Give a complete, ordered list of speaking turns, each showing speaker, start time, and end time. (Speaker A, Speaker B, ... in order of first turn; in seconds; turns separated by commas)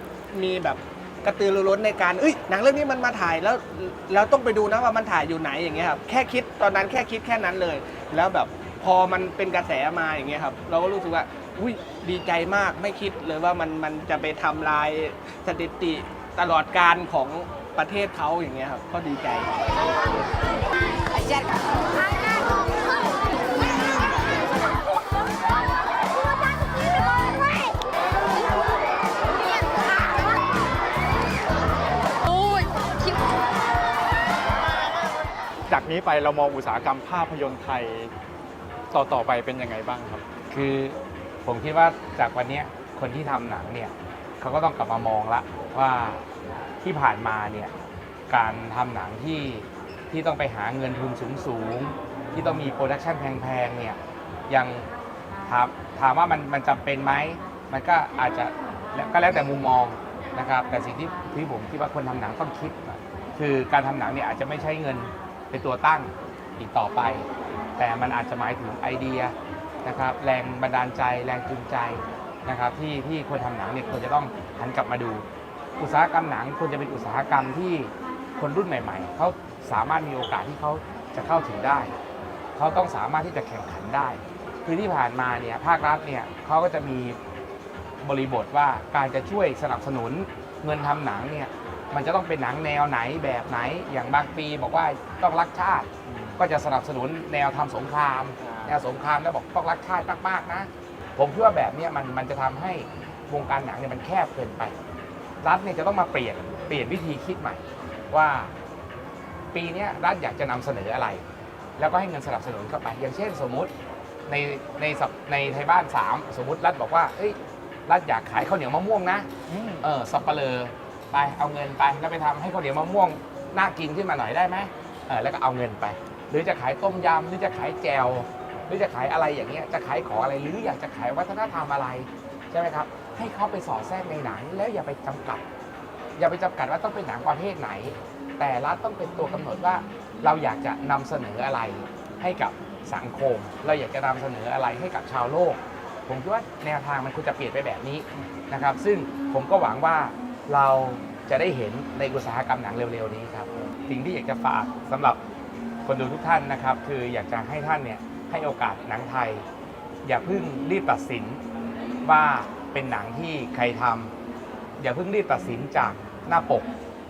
Speaker A: 0.3-19.9, Speaker B: 35.7-38.1, Speaker B: 38.9-40.3, Speaker C: 40.5-46.2, Speaker C: 46.8-47.7, Speaker C: 48.3-54.9, Speaker C: 55.5-75.2, Speaker C: 75.8-81.9, Speaker C: 82.6-87.2, Speaker C: 88.0-104.8, Speaker B: 96.1-96.4, Speaker B: 98.4-98.7, Speaker C: 105.4-108.5, Speaker C: 109.5-111.2, Speaker C: 111.8-113.7, Speaker C: 114.3-119.3, Speaker B: 119.5-119.9, Speaker C: 119.8-135.4, Speaker C: 136.2-155.2, Speaker C: 155.9-159.4, Speaker C: 160.0-161.4, Speaker C: 162.0-164.1, Speaker C: 164.8-166.7